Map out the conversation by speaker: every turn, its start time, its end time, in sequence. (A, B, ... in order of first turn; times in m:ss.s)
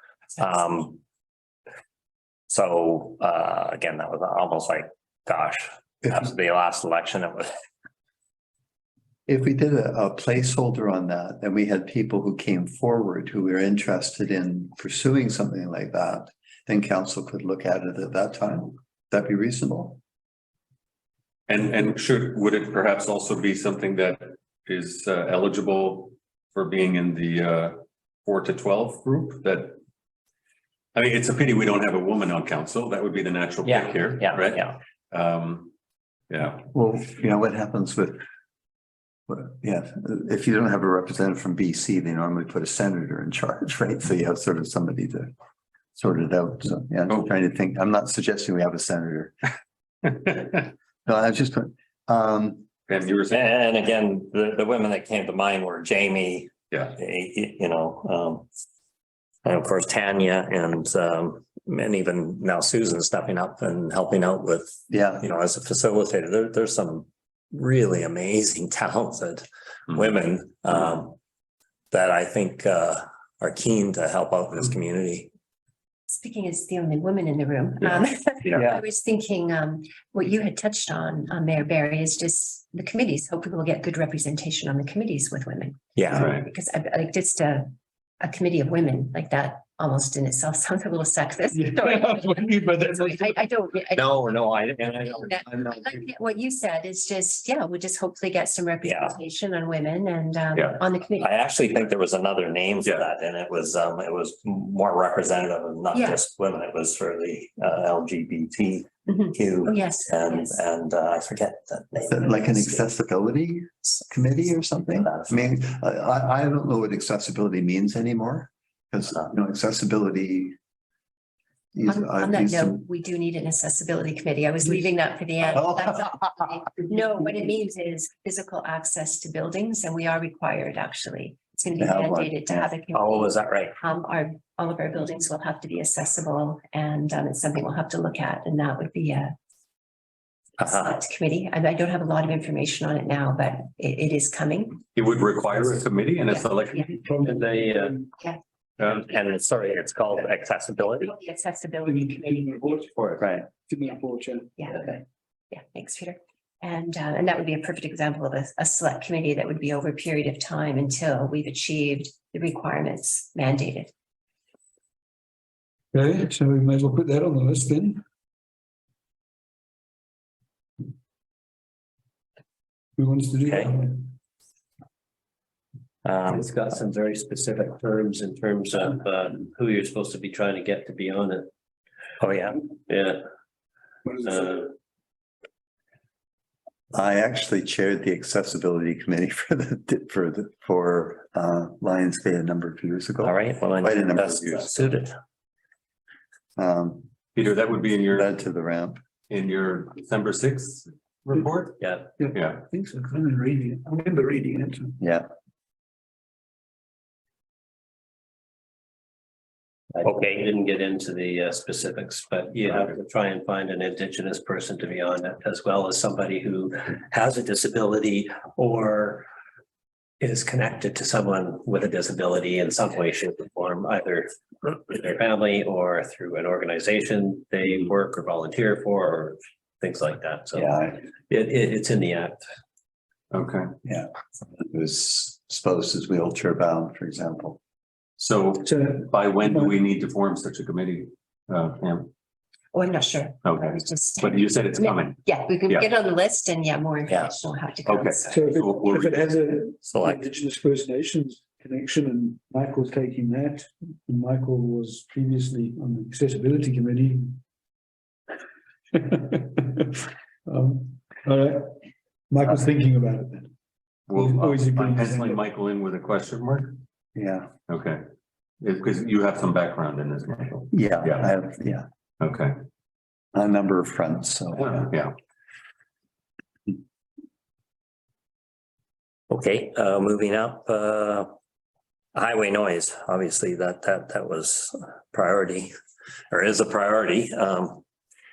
0:00.4-0:01.0 A
0:02.5-0:07.5 A
0:09.3-0:20.0 B
0:21.5-0:29.8 C
0:30.9-0:35.7 C
0:33.6-0:34.8 A
0:36.3-0:36.7 C
0:36.7-0:38.2 B
0:39.3-0:45.3 B
0:46.0-0:49.4 B
0:51.0-0:52.7 B
0:52.9-0:53.5 C
0:53.3-0:58.5 A
0:56.7-0:57.0 C
0:59.4-1:11.2 A
1:04.9-1:05.2 B
1:11.9-1:15.3 A
1:16.1-1:34.1 D
1:18.4-1:18.7 A
1:25.9-1:26.3 A
1:26.1-1:26.4 C
1:31.6-1:33.0 E
1:33.9-1:35.8 A
1:35.0-1:41.3 D
1:38.8-1:39.2 A
1:40.5-1:40.8 C
1:41.2-1:52.8 A
1:45.9-1:46.2 D
1:49.1-1:50.6 D
1:52.1-2:00.5 B
1:54.9-1:55.4 A
2:01.7-2:02.8 B
2:01.9-2:19.3 D
2:05.5-2:06.0 B
2:11.8-2:12.7 B
2:12.9-2:13.8 A
2:20.6-2:21.0 A
2:20.6-2:24.8 D
2:24.9-2:27.0 C
2:26.3-2:26.8 D
2:26.9-2:28.1 E
2:27.2-2:28.0 F
2:28.8-2:31.1 A
2:31.0-2:32.6 D
2:31.8-2:35.0 E
2:34.6-2:34.8 D
2:35.5-2:43.9 D
2:45.9-2:48.0 E
2:53.0-2:54.1 E
2:53.4-2:53.8 A
2:56.0-2:56.4 A
2:56.3-3:01.5 F
3:02.2-3:02.6 A
3:02.9-3:03.2 F
3:04.1-3:04.7 F
3:06.9-3:14.9 B
3:13.2-3:15.1 A
3:16.6-3:17.1 B
3:17.3-3:18.3 C
3:18.1-3:19.0 B
3:19.3-3:22.7 C
3:21.8-3:22.1 F
3:22.2-3:25.0 E
3:25.0-3:25.2 B
3:30.0-3:39.3 F
3:30.0-3:30.4 A
3:40.2-3:50.8 F
3:50.5-3:51.0 B
3:51.3-3:52.4 F
3:53.3-3:53.7 C
3:53.8-3:57.6 B
3:58.2-4:02.1 C
3:58.6-3:59.8 E
4:02.7-4:08.6 D
4:03.4-4:05.9 C
4:07.1-4:07.3 A
4:07.8-4:09.4 C
4:08.3-4:17.4 E
4:09.8-4:10.3 A
4:18.9-4:21.8 E
4:22.3-4:23.5 E
4:24.1-4:26.8 C
4:24.1-4:25.5 E
4:27.1-4:27.5 B
4:27.7-4:28.0 C
4:28.6-4:31.3 C
4:30.7-4:31.8 B
4:32.2-4:32.5 C
4:33.3-4:34.9 B
4:34.6-4:35.1 C
4:39.3-4:41.3 A
4:42.1-4:45.7 A
4:46.3-4:47.8 A